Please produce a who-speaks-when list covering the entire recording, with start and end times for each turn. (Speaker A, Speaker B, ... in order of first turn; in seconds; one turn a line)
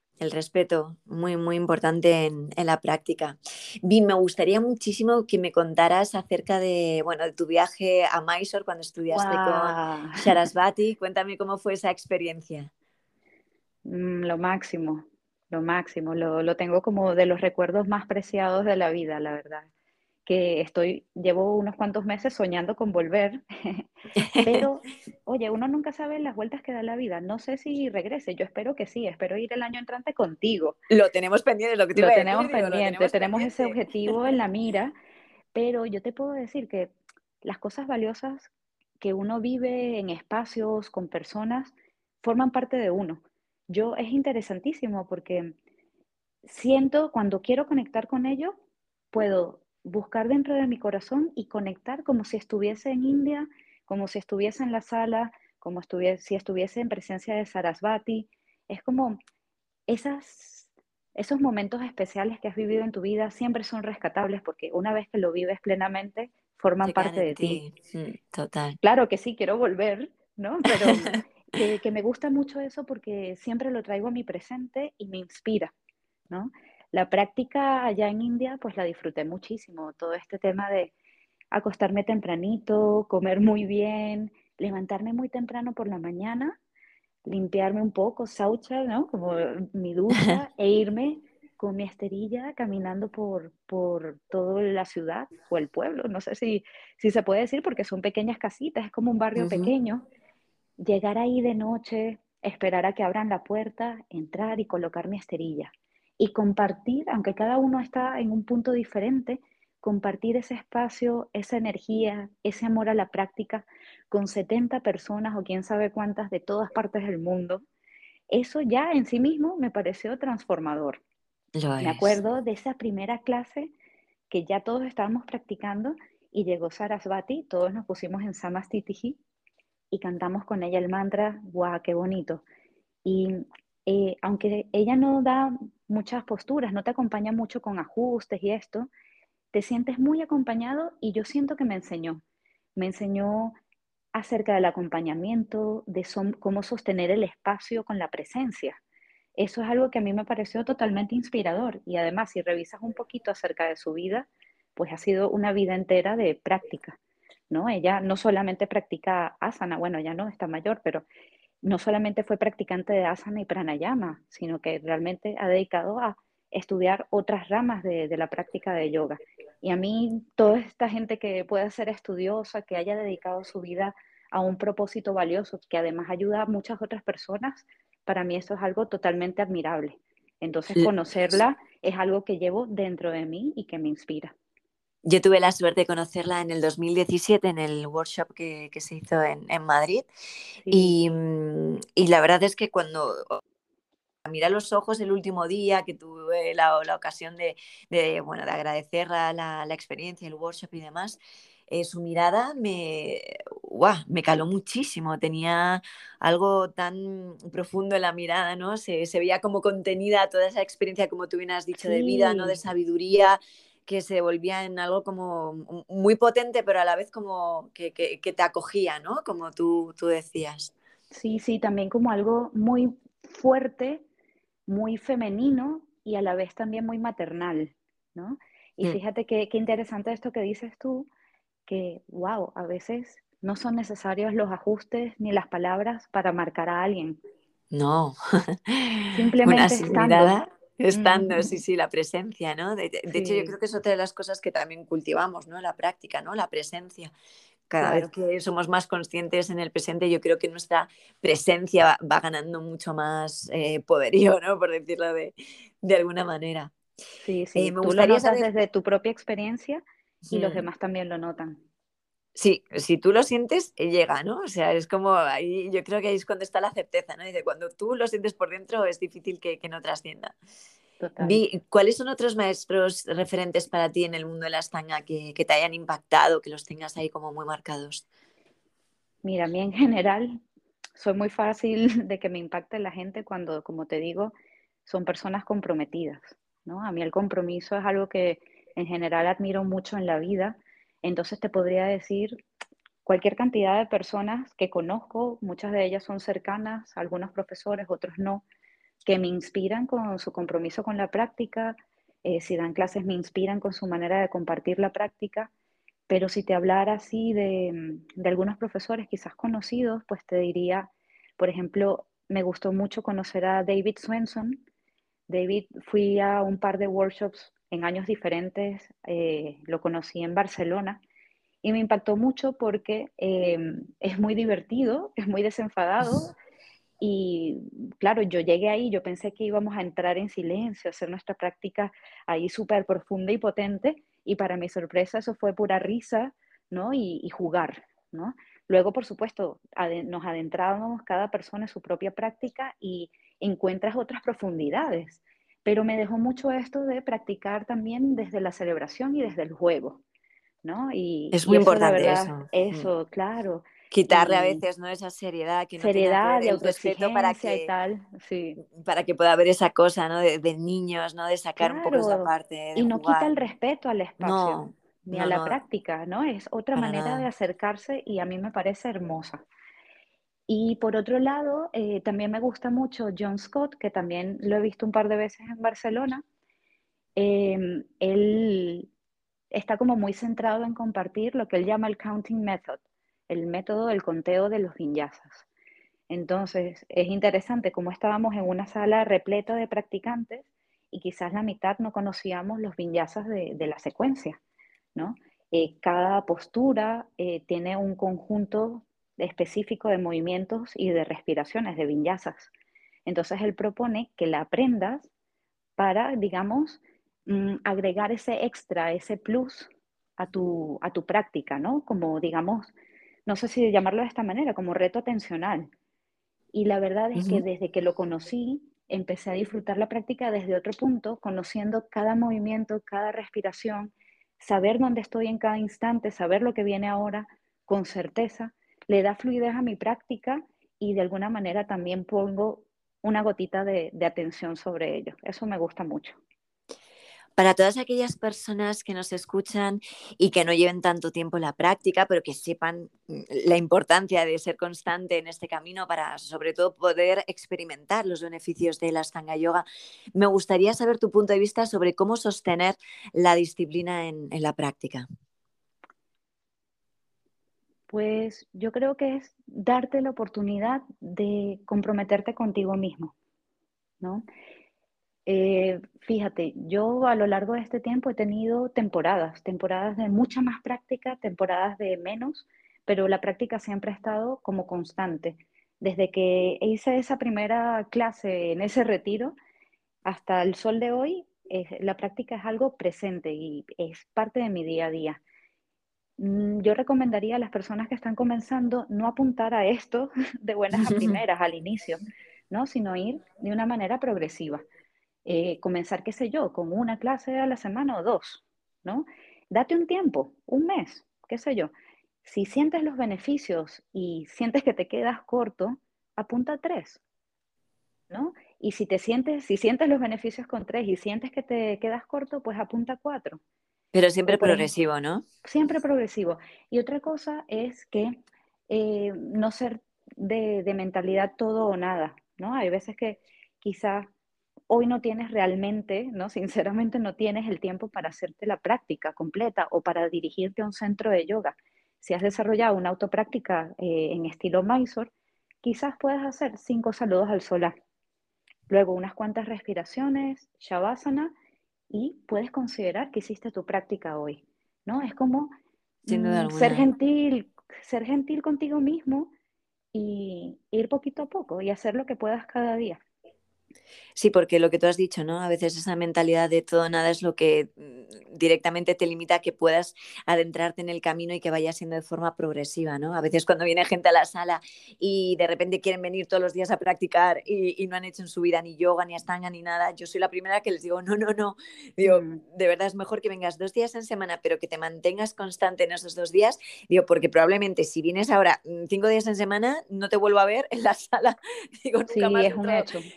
Speaker A: 0.2-12.7
Speaker B: 9.1-10.3
Speaker B: 13.8-19.7
Speaker B: 20.3-23.9
Speaker A: 24.2-24.7
Speaker B: 24.4-30.8
Speaker A: 30.9-34.2
Speaker B: 31.9-34.9
Speaker B: 35.5-45.6
Speaker B: 46.5-48.5
Speaker B: 49.1-59.2
Speaker B: 59.9-67.6
Speaker A: 66.8-68.8
Speaker B: 68.8-75.7
Speaker A: 70.8-71.1
Speaker B: 76.3-80.9
Speaker B: 81.5-86.6
Speaker B: 87.3-100.1
Speaker A: 99.4-99.7
Speaker B: 100.8-117.6
Speaker B: 118.3-121.0
Speaker A: 121.5-122.2
Speaker B: 121.8-123.7
Speaker B: 124.3-129.2
Speaker B: 129.9-132.4
Speaker B: 133.1-138.9
Speaker B: 139.5-142.2
Speaker B: 142.8-143.6
Speaker B: 144.1-148.8
Speaker B: 149.4-157.0
Speaker B: 157.5-161.1
Speaker B: 161.6-184.3
Speaker A: 185.1-190.1
Speaker B: 190.7-190.9
Speaker A: 190.7-193.4
Speaker A: 194.2-201.2
Speaker A: 201.7-220.7
Speaker B: 211.8-212.6
Speaker B: 221.1-224.0
Speaker B: 224.7-231.1
Speaker B: 231.7-237.2
Speaker A: 237.7-247.1
Speaker B: 239.1-240.4
Speaker B: 240.9-241.5
Speaker B: 243.1-243.6
Speaker A: 247.7-256.7
Speaker B: 247.8-248.1
Speaker B: 257.2-261.6
Speaker A: 257.6-258.5
Speaker A: 260.3-260.7
Speaker A: 262.4-270.3
Speaker B: 271.0-271.4
Speaker A: 271.2-278.1
Speaker B: 279.2-280.4
Speaker B: 281.0-284.3
Speaker B: 284.9-292.4
Speaker B: 293.1-298.4
Speaker B: 299.0-305.5
Speaker B: 306.1-314.6
Speaker B: 315.3-321.0
Speaker B: 321.6-326.4
Speaker B: 327.0-350.0
Speaker B: 350.6-354.6
Speaker A: 351.3-352.9
Speaker A: 353.9-357.7
Speaker B: 355.8-358.6
Speaker A: 358.6-363.3
Speaker B: 361.6-369.4
Speaker A: 364.2-365.6
Speaker A: 366.8-367.3
Speaker B: 370.5-376.2
Speaker B: 377.2-378.9
Speaker B: 379.5-385.5
Speaker B: 386.1-394.4
Speaker B: 394.9-402.5
Speaker B: 403.1-405.1
Speaker B: 405.8-412.7
Speaker B: 413.3-415.7
Speaker B: 416.5-436.2
Speaker A: 417.2-417.4
Speaker A: 437.4-455.1
Speaker B: 457.9-463.1
Speaker B: 465.3-479.4
Speaker B: 480.1-485.2
Speaker B: 486.2-494.6
Speaker A: 490.7-491.2
Speaker B: 495.3-501.7
Speaker B: 502.2-507.0
Speaker B: 508.1-513.4
Speaker A: 513.9-515.2
Speaker B: 514.3-514.7
Speaker B: 515.4-518.2
Speaker B: 518.7-524.1
Speaker B: 524.7-535.1
Speaker B: 535.6-537.7
Speaker B: 538.7-541.3
Speaker B: 541.9-545.5
Speaker B: 546.0-549.3
Speaker A: 546.1-546.9
Speaker B: 549.9-553.0
Speaker A: 554.2-582.9
Speaker B: 572.0-572.4
Speaker B: 582.1-583.1